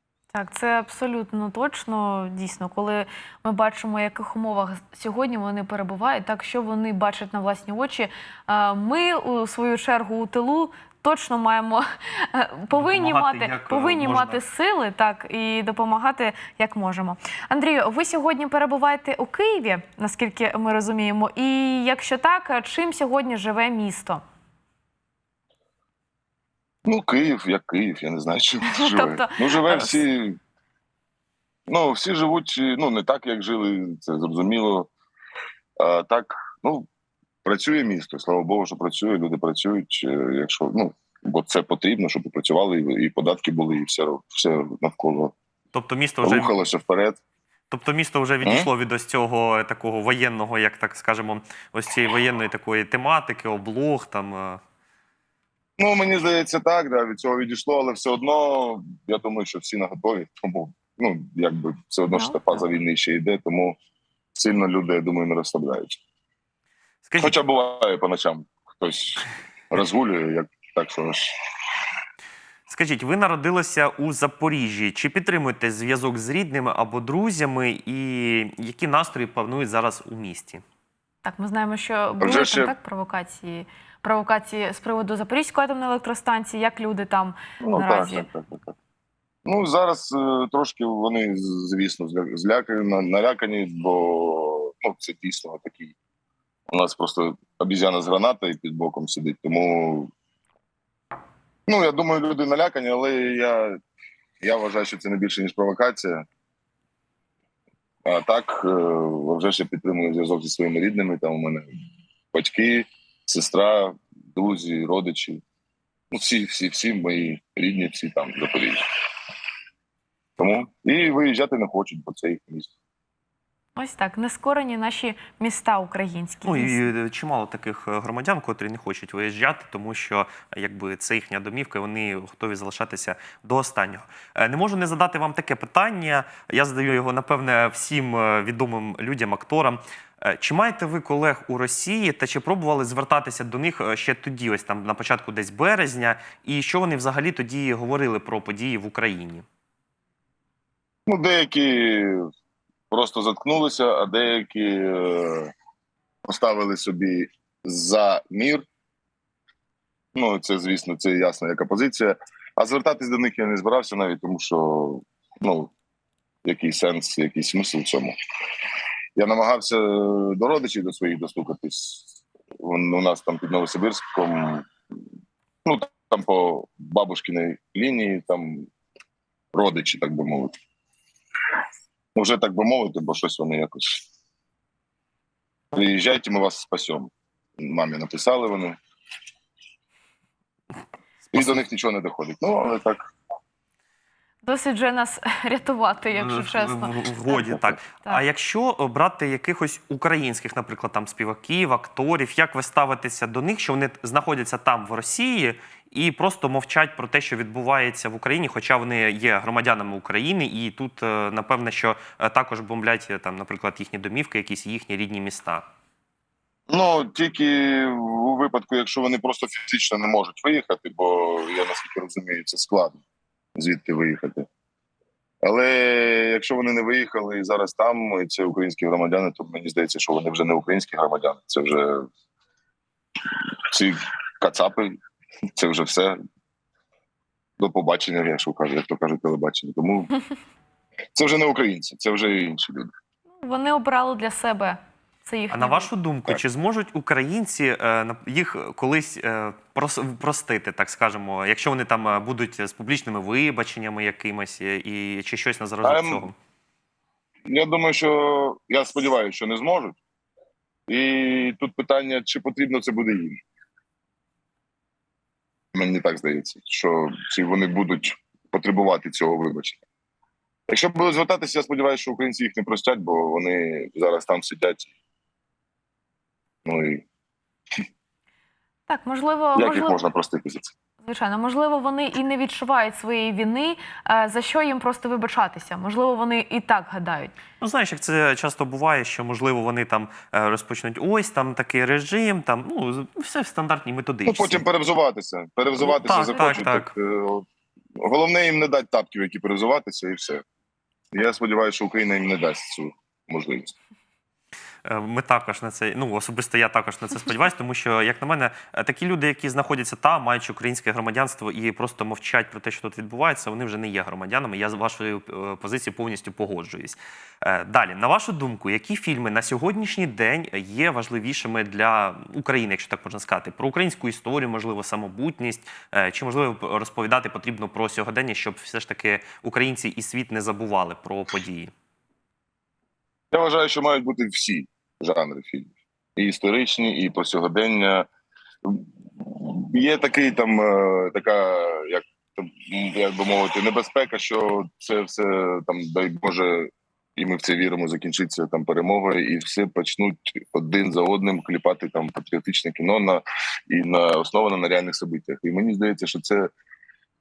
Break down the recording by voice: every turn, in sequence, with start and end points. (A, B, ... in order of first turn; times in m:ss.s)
0:00.3-0:24.2 A
0:12.7-0:14.4 B
0:26.8-0:30.4 C
0:28.7-0:30.0 A
0:31.7-0:34.9 C
0:35.8-0:36.9 C
0:37.4-0:45.3 C
0:45.7-0:46.5 B
0:46.2-0:47.2 C
0:47.7-0:54.6 B
0:48.4-0:48.7 C
0:55.8-1:03.8 C
1:02.1-1:02.4 A
1:04.3-1:06.0 C
1:07.0-1:07.4 B
1:07.2-1:11.3 C
1:12.7-1:20.6 B
1:21.2-1:28.3 A
1:22.2-1:22.7 C
1:27.6-1:28.7 C
1:29.4-1:36.0 C
1:36.7-1:40.1 C
1:41.7-1:43.8 C
1:44.4-1:46.2 C
1:48.0-1:51.7 C
1:52.3-1:55.4 C
1:56.1-1:58.8 C
2:00.4-2:02.7 C
2:03.8-2:06.9 A
2:06.4-2:29.4 B
2:31.0-2:32.2 C
2:32.9-2:35.5 C
2:36.2-2:38.6 C
2:40.1-2:45.7 C
2:46.4-2:48.1 C
2:49.2-2:54.7 C
2:55.6-2:58.7 C
2:59.5-3:00.5 C
3:02.1-3:04.0 C
3:05.7-3:08.8 C
3:11.3-3:11.6 B
3:11.3-3:13.0 C
3:14.4-3:18.2 A
3:16.2-3:35.6 B
3:36.7-3:43.0 C
3:43.6-3:44.4 C
3:45.4-3:52.0 C
3:53.3-3:55.0 C
3:55.6-3:56.2 C
3:57.6-4:00.1 C
4:01.1-4:02.9 C
4:03.4-4:05.9 A
4:05.5-4:16.3 B
4:15.8-4:16.3 C
4:17.4-4:20.0 C
4:20.9-4:23.4 C
4:25.7-4:29.8 C
4:30.7-4:34.9 C
4:36.6-4:37.0 C
4:38.9-4:40.0 A
4:39.5-4:40.7 C
4:41.0-4:47.4 A
4:47.6-4:54.6 B
4:54.2-4:57.4 C
4:55.8-4:56.9 B
4:58.0-5:00.4 C
5:01.1-5:03.7 C
5:04.8-5:31.7 B
5:33.3-5:38.1 C
5:38.6-5:56.5 C